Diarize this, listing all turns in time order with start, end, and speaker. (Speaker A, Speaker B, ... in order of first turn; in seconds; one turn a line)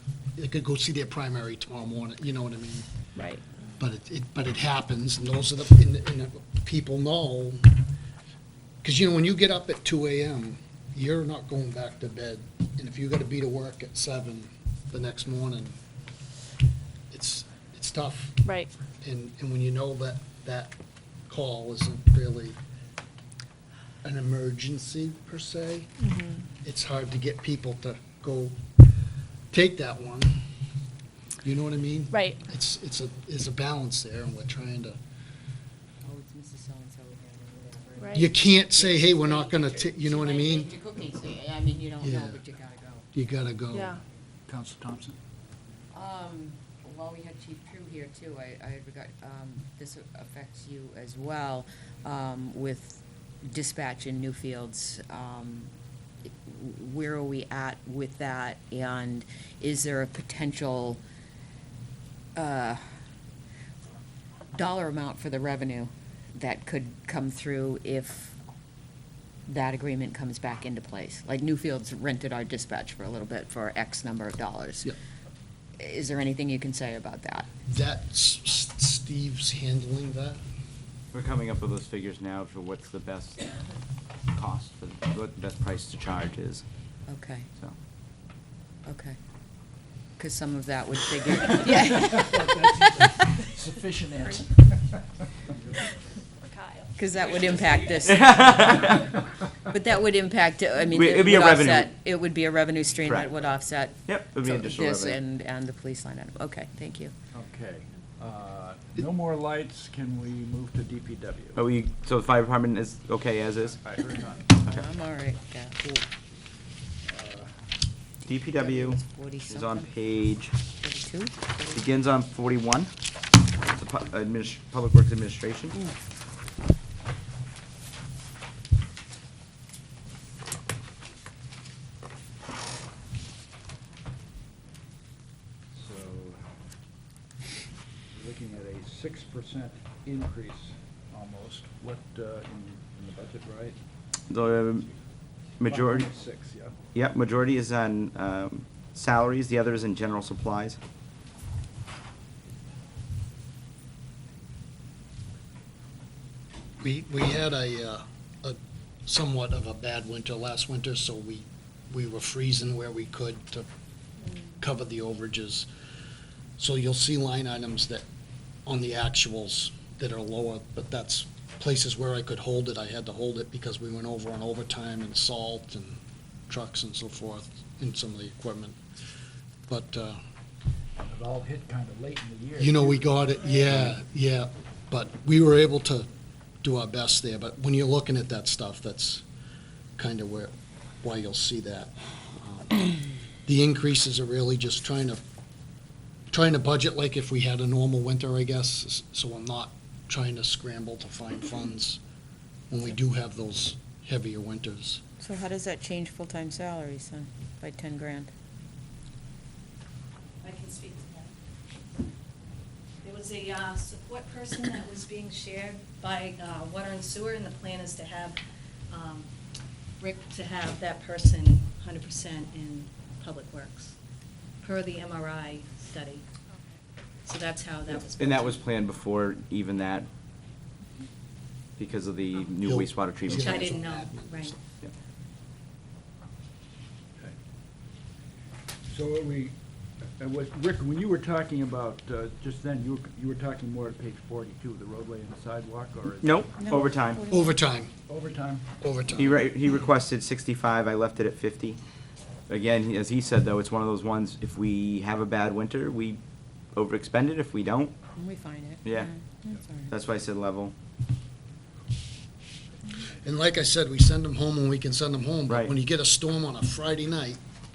Speaker A: 0.4-2.9
Speaker B: 3.2-3.4
Speaker A: 3.8-7.7
Speaker A: 8.8-15.7
Speaker A: 17.1-18.4
Speaker B: 18.4-18.7
Speaker A: 19.0-20.7
Speaker A: 21.3-22.6
Speaker A: 24.0-28.6
Speaker A: 29.5-30.4
Speaker A: 31.4-35.0
Speaker B: 32.1-32.4
Speaker C: 36.0-43.1
Speaker B: 38.0-38.3
Speaker A: 38.1-40.7
Speaker A: 42.0-42.4
Speaker A: 43.1-44.0
Speaker B: 43.7-44.0
Speaker D: 44.5-45.2
Speaker C: 45.9-55.7
Speaker C: 56.3-61.0
Speaker C: 62.4-62.8
Speaker C: 64.5-68.4
Speaker C: 69.5-74.9
Speaker C: 75.8-77.5
Speaker A: 77.7-80.4
Speaker E: 81.1-83.5
Speaker E: 84.3-86.6
Speaker C: 87.1-87.5
Speaker C: 88.9-89.2
Speaker C: 90.2-93.4
Speaker D: 91.8-95.0
Speaker B: 96.4-98.1
Speaker C: 97.0-99.0
Speaker E: 98.0-99.1
Speaker C: 99.7-107.1
Speaker E: 100.9-101.9
Speaker E: 103.0-103.3
Speaker E: 104.1-105.2
Speaker D: 107.3-111.6
Speaker E: 111.6-113.8
Speaker D: 113.7-114.6
Speaker C: 114.7-116.1
Speaker D: 117.0-117.5
Speaker E: 118.3-120.5
Speaker C: 118.3-119.9
Speaker C: 120.8-121.8
Speaker E: 121.7-122.9
Speaker E: 123.7-125.8
Speaker D: 135.7-136.4
Speaker D: 138.1-143.8
Speaker E: 144.3-144.9
Speaker E: 145.6-146.1
Speaker D: 145.6-146.8
Speaker E: 146.9-150.8
Speaker A: 156.8-163.7
Speaker A: 164.6-165.7
Speaker A: 166.6-168.1
Speaker A: 168.7-176.0
Speaker A: 176.5-178.8
Speaker A: 179.7-180.2
Speaker D: 181.0-183.2
Speaker A: 182.6-186.1
Speaker A: 186.6-189.2
Speaker A: 190.0-192.8
Speaker A: 193.5-195.2
Speaker A: 196.3-202.0
Speaker A: 202.7-205.0
Speaker C: 205.2-208.3
Speaker F: 210.4-211.3
Speaker F: 213.0-218.4
Speaker F: 218.9-219.3
Speaker F: 220.0-224.0
Speaker F: 224.6-226.2
Speaker F: 227.2-228.6
Speaker E: 227.9-230.1
Speaker E: 231.8-233.7
Speaker A: 232.6-234.5
Speaker F: 233.3-234.6
Speaker D: 238.9-239.5
Speaker D: 240.2-246.8
Speaker E: 246.2-247.2
Speaker C: 246.6-247.6
Speaker A: 247.3-247.9
Speaker D: 248.1-248.7
Speaker A: 248.8-249.5
Speaker E: 249.2-251.8
Speaker E: 252.5-256.2
Speaker E: 256.7-257.9
Speaker C: 258.2-259.9
Speaker E: 259.9-260.7
Speaker A: 263.2-267.4
Speaker E: 265.5-265.8